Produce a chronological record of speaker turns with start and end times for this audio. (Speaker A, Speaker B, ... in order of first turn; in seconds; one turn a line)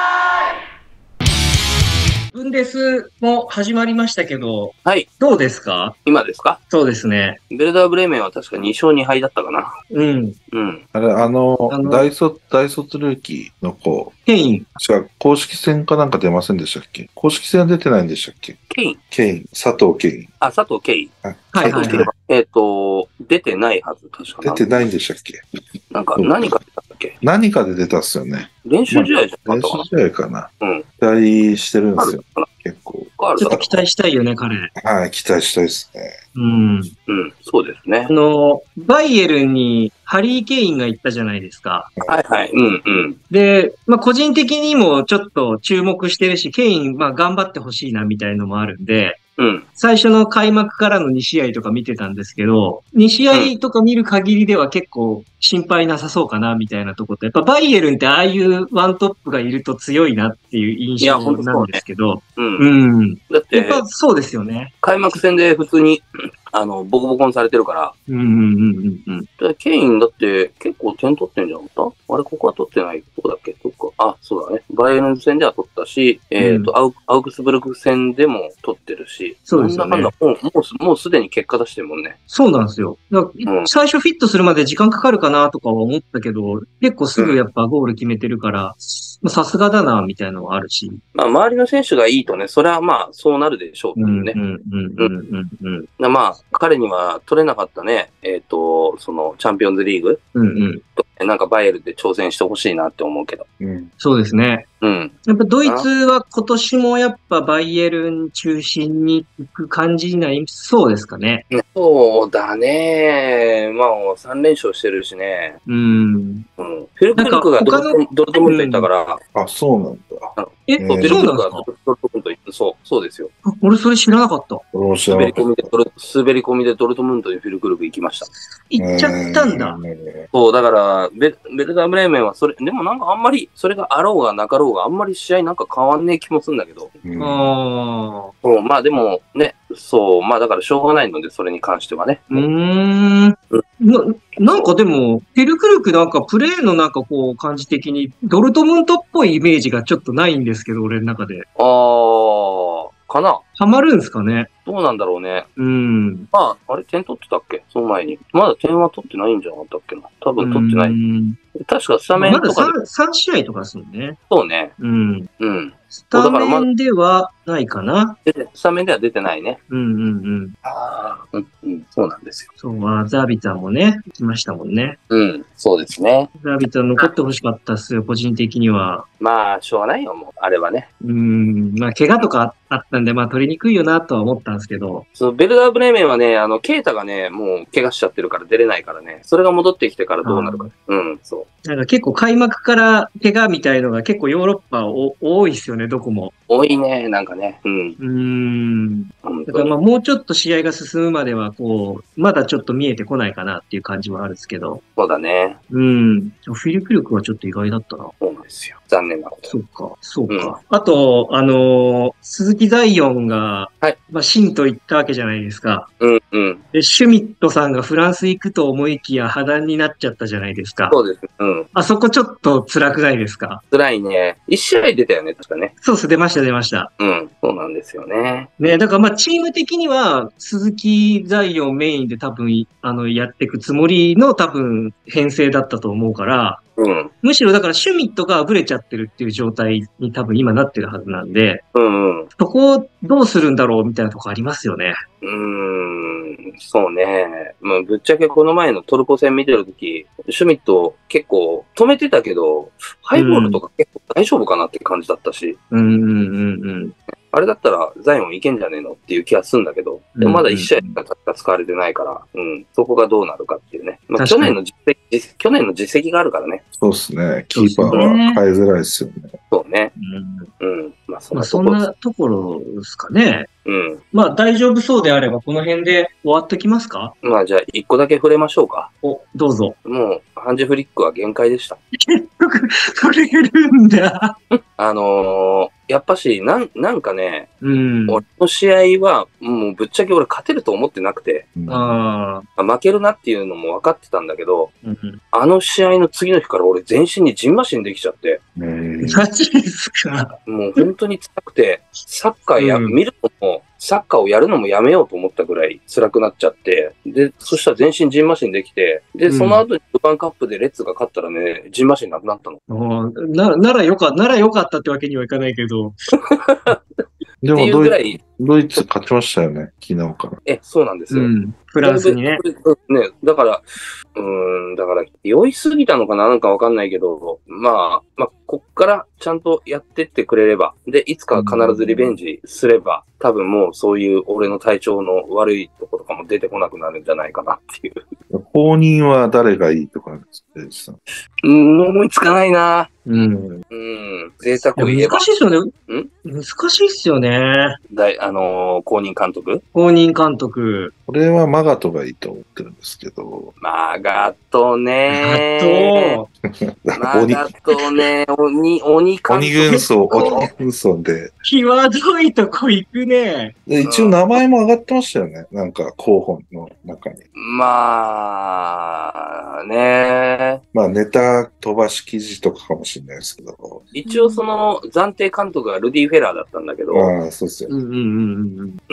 Speaker A: 2.3-6.0
Speaker B: 4.8-5.1
Speaker B: 6.0-6.6
Speaker A: 6.7-7.4
Speaker B: 7.5-9.7
Speaker A: 9.9-10.4
Speaker B: 10.5-10.8
Speaker C: 10.9-14.1
Speaker A: 11.7-12.1
Speaker A: 14.3-14.7
Speaker C: 14.8-20.3
Speaker B: 18.7-19.0
Speaker B: 20.4-21.1
Speaker C: 21.2-22.1
Speaker A: 21.5-22.1
Speaker B: 21.6-24.9
Speaker C: 24.4-25.4
Speaker B: 25.9-27.2
Speaker C: 26.2-26.5
Speaker C: 27.2-33.8
Speaker B: 28.6-29.9
Speaker B: 32.0-32.5
Speaker B: 33.2-33.6
Speaker A: 33.4-34.7
Speaker C: 34.8-36.1
Speaker A: 36.3-36.9
Speaker B: 37.1-38.1
Speaker A: 38.1-41.9
Speaker B: 42.1-43.2
Speaker A: 43.3-49.2
Speaker B: 49.4-49.7
Speaker A: 49.8-64.7
Speaker B: 61.0-61.8
Speaker B: 62.4-62.7
Speaker B: 63.3-63.9
Speaker B: 64.8-68.0
Speaker A: 68.1-69.3
Speaker B: 69.4-82.2
Speaker A: 76.4-76.7
Speaker A: 79.5-80.1
Speaker A: 82.3-91.0
Speaker B: 91.2-94.4
Speaker A: 94.0-95.9
Speaker B: 96.0-100.2
Speaker A: 100.3-100.8
Speaker B: 101.0-103.5
Speaker C: 103.6-103.9
Speaker A: 104.0-104.7
Speaker B: 104.8-105.9
Speaker A: 105.3-111.5
Speaker B: 111.5-115.6
Speaker A: 115.7-116.5
Speaker B: 116.6-119.2
Speaker A: 117.2-118.9
Speaker C: 119.3-121.3
Speaker B: 120.4-123.3
Speaker A: 120.7-121.7
Speaker A: 123.5-124.6
Speaker C: 124.7-125.6
Speaker B: 125.1-128.3
Speaker A: 128.7-129.8
Speaker C: 128.8-130.3
Speaker B: 130.3-137.0
Speaker C: 137.0-137.6
Speaker A: 137.2-138.3
Speaker B: 138.4-142.5
Speaker A: 142.3-151.5
Speaker B: 144.4-144.7
Speaker B: 151.6-153.4
Speaker A: 153.6-154.5
Speaker B: 154.7-155.5
Speaker A: 155.6-156.3
Speaker B: 156.3-161.0
Speaker A: 160.4-161.4
Speaker B: 161.6-162.8
Speaker A: 162.1-164.2
Speaker B: 164.3-164.8
Speaker A: 164.8-165.3
Speaker B: 165.4-166.7
Speaker A: 165.9-168.2
Speaker B: 168.3-169.6
Speaker A: 169.7-170.6
Speaker B: 170.6-172.5
Speaker A: 172.6-175.0
Speaker B: 175.1-176.3
Speaker A: 176.4-179.1
Speaker B: 179.2-180.9
Speaker A: 181.0-185.1
Speaker B: 185.1-191.5
Speaker A: 190.2-190.7
Speaker A: 191.6-196.3
Speaker B: 196.5-198.0
Speaker A: 198.0-204.8
Speaker B: 199.2-199.7
Speaker B: 205.0-205.6
Speaker A: 205.7-208.2
Speaker B: 208.2-209.6
Speaker A: 209.5-215.9
Speaker B: 210.3-210.6
Speaker B: 216.0-216.6
Speaker A: 216.7-221.0
Speaker B: 220.9-221.7
Speaker A: 221.7-223.6
Speaker B: 223.7-225.7
Speaker A: 225.8-226.9
Speaker B: 227.0-228.5
Speaker A: 228.6-236.6
Speaker B: 236.8-237.1
Speaker A: 237.2-241.6
Speaker B: 241.7-242.3
Speaker A: 242.4-244.9
Speaker B: 245.2-255.6
Speaker A: 253.2-253.6
Speaker A: 255.7-256.9
Speaker B: 257.3-266.6
Speaker A: 260.2-261.0
Speaker A: 264.2-264.6
Speaker C: 266.8-269.4
Speaker A: 267.5-268.4
Speaker B: 267.9-268.2
Speaker B: 269.5-269.9
Speaker A: 270.0-270.5
Speaker B: 270.6-271.9
Speaker A: 271.3-273.5
Speaker B: 273.7-274.0
Speaker A: 274.1-277.1
Speaker B: 277.2-278.9
Speaker A: 279.0-279.8
Speaker B: 279.9-281.8
Speaker A: 282.0-284.4
Speaker B: 284.8-287.6
Speaker A: 287.6-288.2
Speaker B: 288.1-291.5
Speaker C: 291.6-292.0
Speaker A: 291.7-292.5
Speaker B: 292.6-294.7
Speaker A: 294.8-295.2
Speaker B: 295.3-298.4
Speaker C: 298.6-299.3
Speaker A: 299.0-300.9
Speaker B: 300.5-312.6
Speaker A: 302.6-303.0
Speaker A: 309.3-309.6
Speaker A: 312.7-316.0
Speaker B: 316.3-318.2
Speaker C: 317.4-320.4
Speaker B: 320.4-338.0
Speaker A: 321.1-322.4
Speaker C: 331.4-332.2
Speaker C: 338.3-341.0
Speaker B: 341.4-342.9
Speaker A: 343.1-343.6
Speaker B: 343.7-345.3
Speaker A: 344.8-345.7
Speaker A: 346.2-347.8
Speaker B: 347.9-349.6
Speaker A: 349.7-350.9
Speaker C: 351.1-353.5
Speaker B: 353.6-356.2
Speaker A: 355.1-356.3
Speaker C: 356.9-357.6
Speaker B: 357.0-360.5
Speaker C: 359.3-361.3
Speaker A: 359.7-360.5
Speaker A: 361.4-363.6
Speaker C: 363.7-367.2
Speaker B: 363.8-364.4
Speaker B: 367.4-370.6
Speaker C: 370.7-373.9
Speaker B: 373.9-377.1
Speaker A: 374.1-374.4
Speaker C: 376.9-377.7
Speaker A: 377.7-378.8